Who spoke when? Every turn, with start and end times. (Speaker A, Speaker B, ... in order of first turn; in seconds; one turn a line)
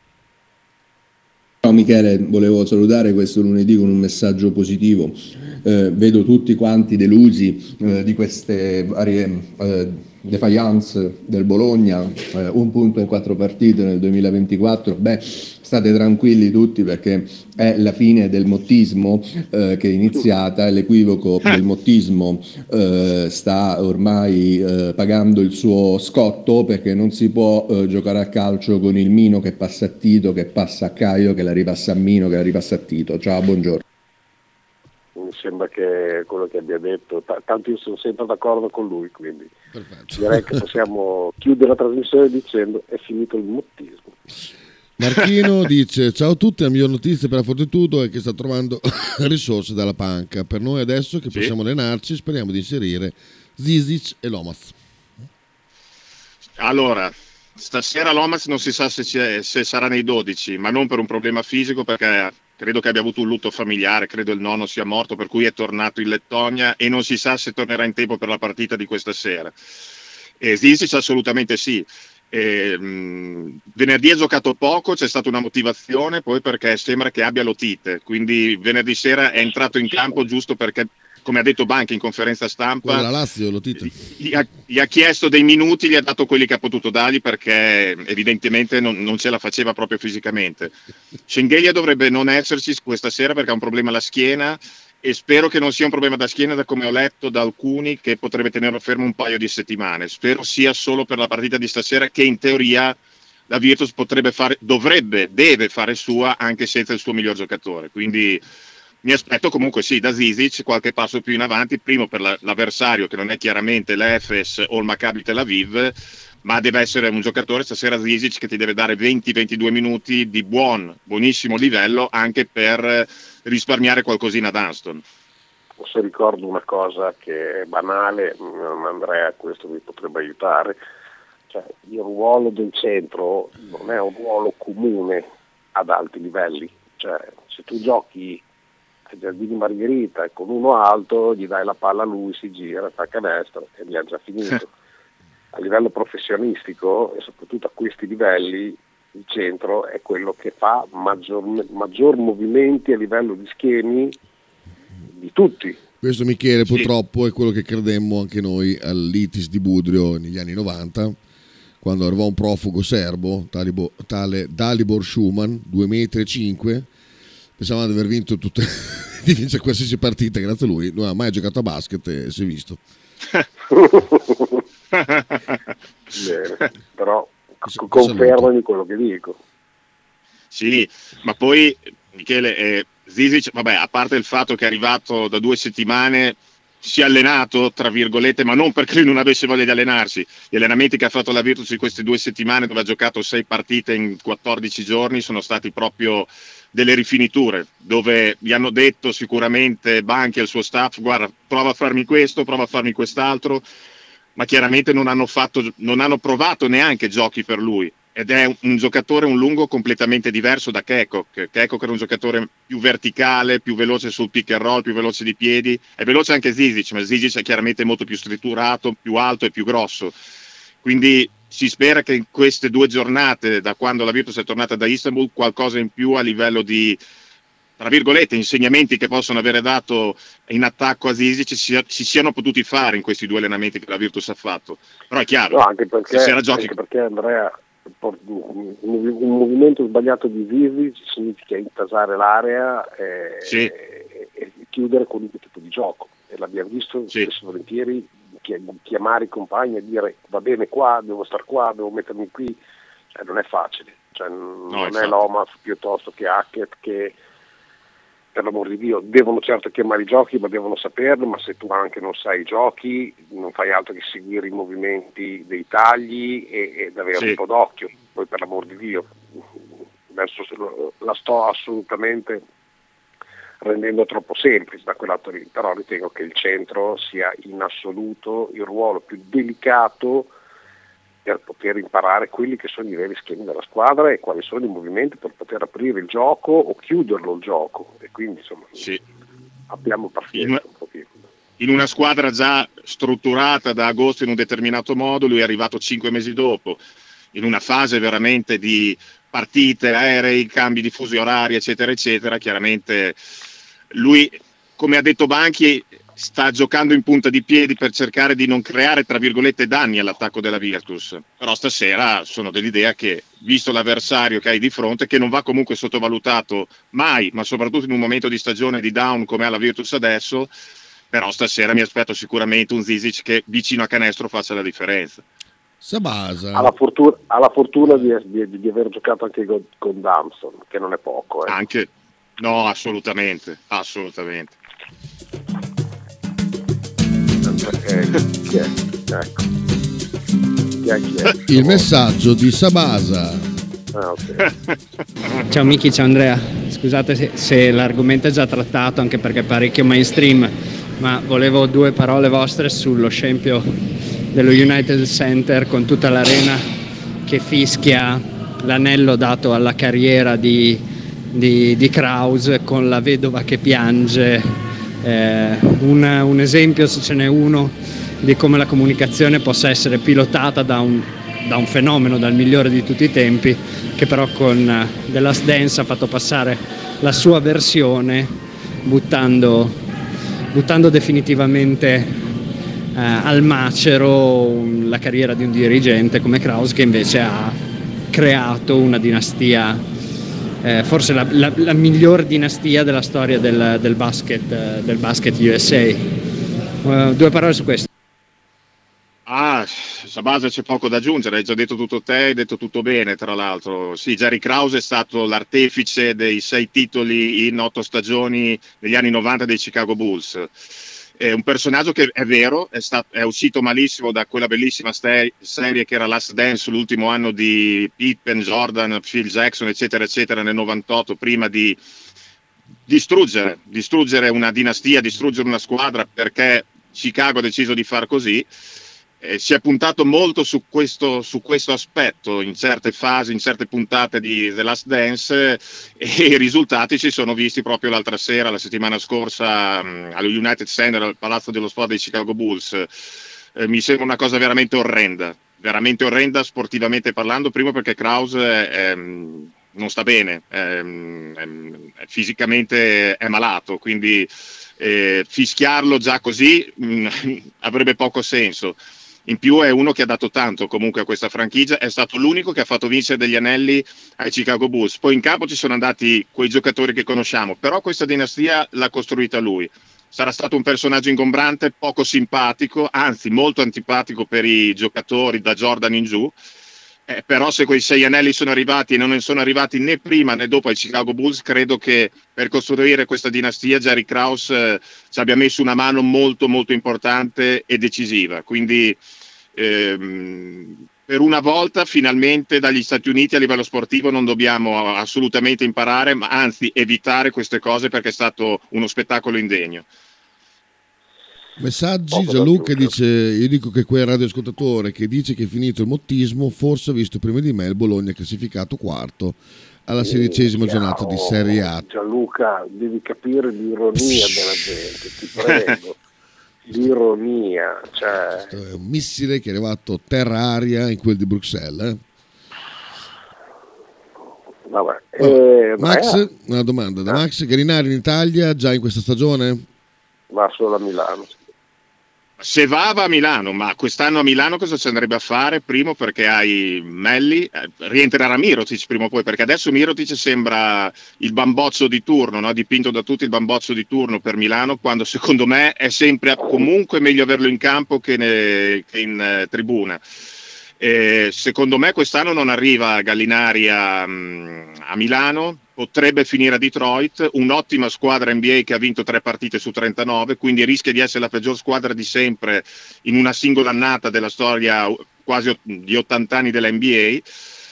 Speaker A: 1.6-33.8
Speaker B: 35.1-39.5
Speaker C: 39.7-40.6
Speaker B: 40.1-44.1
Speaker C: 45.0-54.8
Speaker D: 56.6-69.5
Speaker D: 70.4-83.1
Speaker C: 82.8-84.0
Speaker D: 84.0-90.7
Speaker D: 91.3-103.0
Speaker D: 103.5-108.4
Speaker D: 109.0-125.0
Speaker B: 125.8-130.8
Speaker B: 131.5-138.4
Speaker B: 139.1-144.7
Speaker B: 145.5-154.2
Speaker B: 155.1-155.8
Speaker C: 156.0-161.2
Speaker C: 161.8-166.9
Speaker C: 167.6-172.8
Speaker B: 173.7-174.6
Speaker D: 174.9-175.6
Speaker B: 176.1-179.4
Speaker C: 177.7-178.5
Speaker D: 180.5-203.6
Speaker D: 204.3-220.1
Speaker D: 220.8-227.0
Speaker D: 227.8-236.7
Speaker B: 235.5-252.6
Speaker D: 243.4-243.7
Speaker B: 253.1-257.1
Speaker D: 254.7-255.2
Speaker B: 258.3-269.4
Speaker B: 270.1-272.4
Speaker B: 273.6-280.3
Speaker B: 281.2-288.9
Speaker B: 289.7-291.2
Speaker D: 290.3-290.6
Speaker D: 291.6-296.8
Speaker D: 297.3-303.2
Speaker D: 303.9-320.5
Speaker D: 321.1-325.2
Speaker C: 325.8-326.7
Speaker B: 326.5-331.6
Speaker D: 331.5-334.6
Speaker B: 337.4-339.4
Speaker B: 340.8-341.9
Speaker C: 341.5-343.5
Speaker B: 343.9-344.5
Speaker D: 344.4-344.7
Speaker E: 345.5-353.6
Speaker E: 354.3-356.6
Speaker E: 357.2-360.8
Speaker E: 361.3-378.3
Speaker E: 378.8-379.8
Speaker E: 380.5-382.1
Speaker E: 382.9-387.6
Speaker E: 388.1-389.8
Speaker E: 390.6-396.0
Speaker E: 396.8-397.9
Speaker D: 399.2-410.6
Speaker D: 411.1-421.8
Speaker D: 422.9-428.5
Speaker D: 429.2-442.9
Speaker D: 443.5-476.3
Speaker D: 477.1-489.0
Speaker D: 489.5-499.8
Speaker C: 501.6-511.8
Speaker B: 502.1-502.9
Speaker B: 510.0-516.0
Speaker C: 514.0-514.6
Speaker B: 516.6-518.5
Speaker C: 518.5-522.0
Speaker B: 524.7-526.2
Speaker C: 525.2-529.6
Speaker B: 530.3-531.3
Speaker D: 532.4-550.0
Speaker D: 550.8-567.2